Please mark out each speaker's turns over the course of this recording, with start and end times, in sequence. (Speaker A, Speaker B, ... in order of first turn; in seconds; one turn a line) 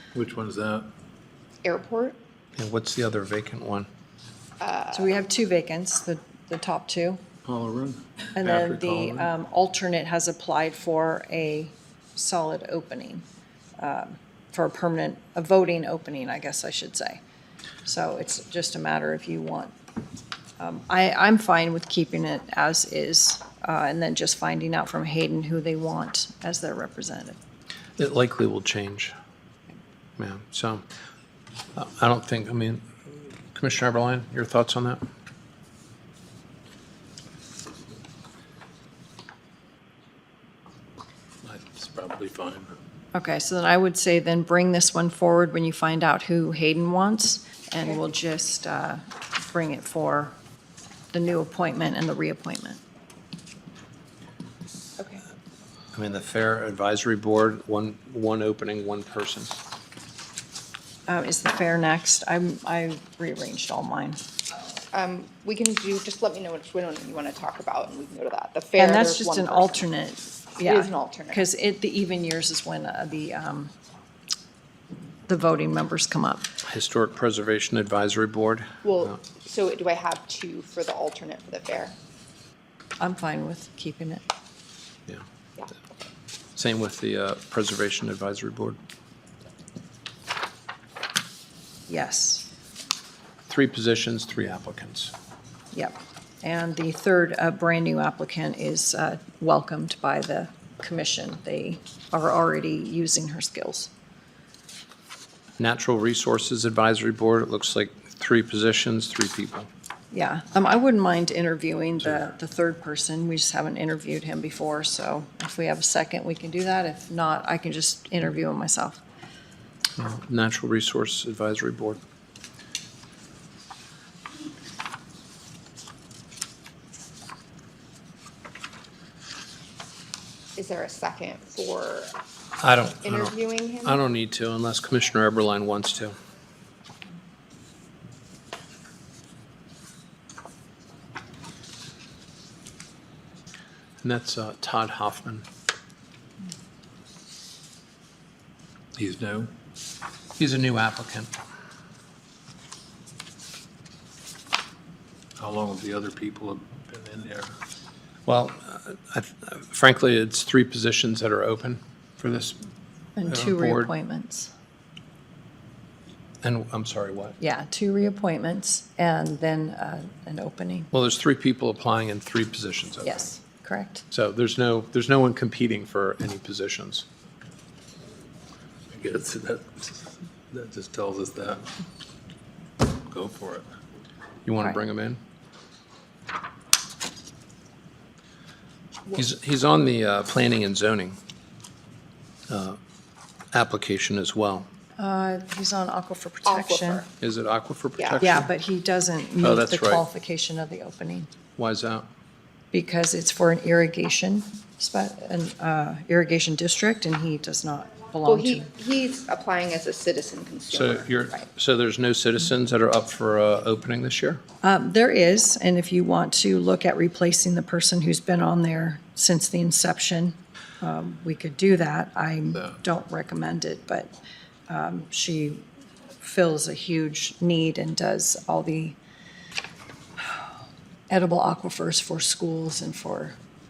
Speaker A: 0.1-0.9
Speaker B: 1.6-2.2
Speaker C: 2.6-3.9
Speaker B: 4.6-5.2
Speaker D: 4.9-7.2
Speaker A: 7.5-9.3
Speaker D: 8.4-13.2
Speaker D: 13.8-17.2
Speaker D: 17.9-19.7
Speaker D: 20.6-27.4
Speaker C: 28.0-29.1
Speaker C: 30.2-30.8
Speaker C: 31.8-35.0
Speaker A: 41.4-42.7
Speaker D: 43.1-50.4
Speaker D: 51.1-52.8
Speaker B: 55.0-55.2
Speaker C: 55.9-59.5
Speaker D: 61.1-64.2
Speaker B: 64.9-69.7
Speaker D: 68.8-73.7
Speaker B: 70.6-71.5
Speaker D: 75.3-76.5
Speaker C: 76.7-79.1
Speaker B: 78.8-82.0
Speaker D: 83.0-84.2
Speaker C: 86.6-88.8
Speaker D: 91.9-92.5
Speaker C: 93.5-95.1
Speaker D: 95.7-103.9
Speaker C: 105.6-109.7
Speaker D: 110.1-119.0
Speaker C: 120.0-122.0
Speaker B: 130.6-132.1
Speaker C: 132.6-133.3
Speaker B: 133.0-134.0
Speaker C: 133.8-136.2
Speaker C: 144.0-145.4
Speaker A: 149.0-149.5
Speaker C: 150.4-151.3
Speaker A: 155.4-157.6
Speaker C: 158.3-162.7
Speaker D: 163.2-164.5
Speaker C: 163.2-163.9
Speaker C: 166.4-167.4
Speaker D: 167.4-170.9
Speaker C: 170.9-173.2
Speaker D: 173.0-174.0
Speaker C: 174.1-177.1
Speaker A: 178.9-181.7
Speaker A: 183.1-183.6
Speaker C: 184.4-185.2
Speaker C: 189.1-191.2
Speaker C: 192.5-192.8
Speaker C: 193.5-194.7
Speaker D: 195.0-197.1
Speaker B: 196.5-197.1
Speaker C: 197.2-198.5
Speaker B: 198.0-198.2
Speaker D: 198.2-201.3
Speaker C: 199.4-200.1
Speaker C: 201.6-202.1
Speaker D: 202.7-208.7
Speaker B: 208.3-211.1
Speaker C: 210.7-214.4
Speaker D: 214.6-224.1
Speaker D: 224.7-225.6
Speaker D: 226.2-229.0
Speaker D: 231.1-233.4